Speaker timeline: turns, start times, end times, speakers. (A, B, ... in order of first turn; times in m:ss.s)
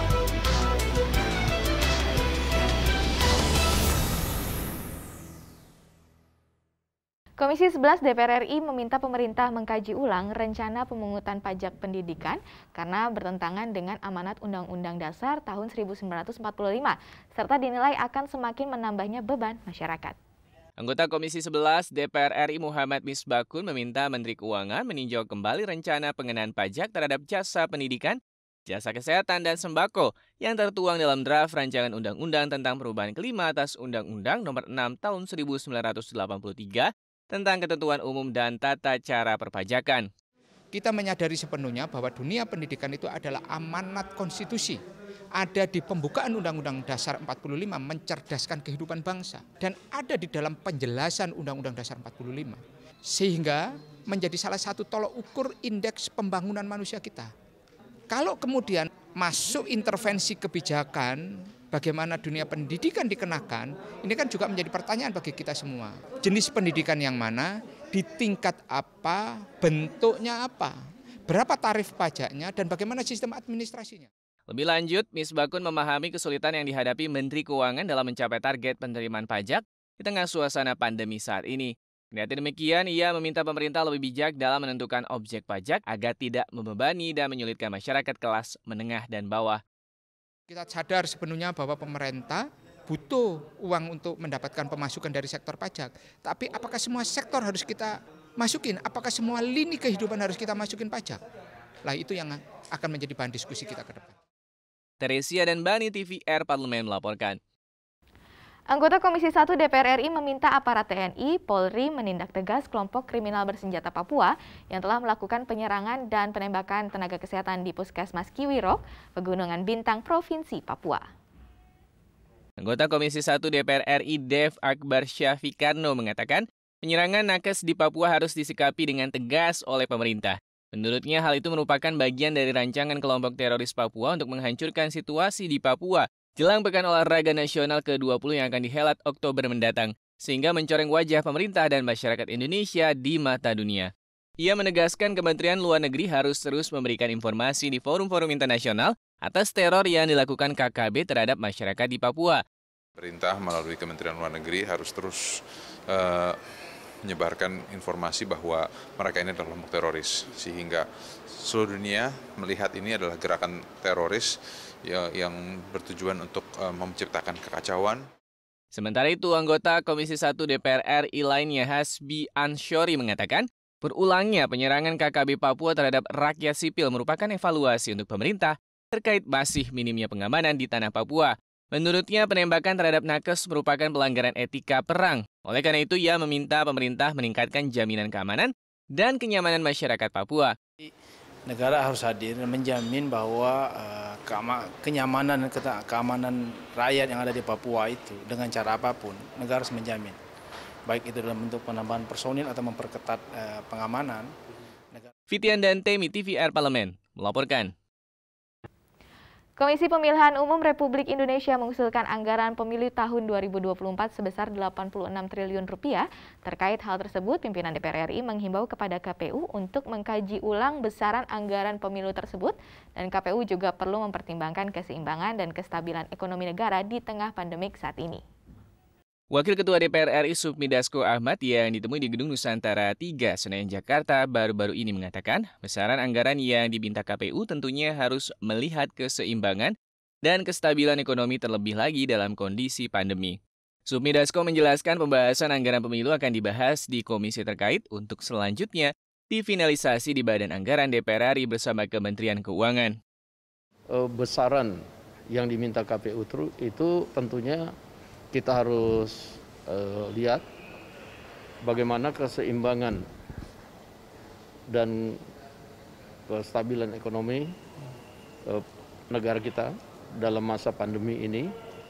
0:07.4-0:20.2 A
0:20.8-0:28.2 B
0:28.7-0:40.1 B
0:40.7-0:44.8 C
0:45.3-0:57.3 C
0:58.1-1:10.7 C
1:11.3-1:14.1 C
1:14.5-1:29.6 B
1:30.5-1:41.2 C
1:41.8-1:44.2 C
1:45.0-1:47.4 B
1:48.7-2:01.1 A
2:02.6-2:32.4 B
2:33.0-2:35.3 D
2:35.9-2:36.4 D
2:37.0-2:44.3 D
2:44.8-2:48.0 D
2:48.7-3:10.5 B
3:11.5-3:20.2 E
3:20.9-3:24.3 E
3:25.3-3:27.7 B
3:29.6-3:48.2 A
3:49.3-3:59.7 B
4:00.2-4:13.0 B
4:13.9-4:14.7 F
4:15.3-4:17.7 F
4:18.3-4:19.2 F
4:19.7-4:20.4 F
4:21.6-4:23.0 F
4:24.7-4:25.2 F
4:26.3-4:27.5 F
4:28.5-4:31.5 F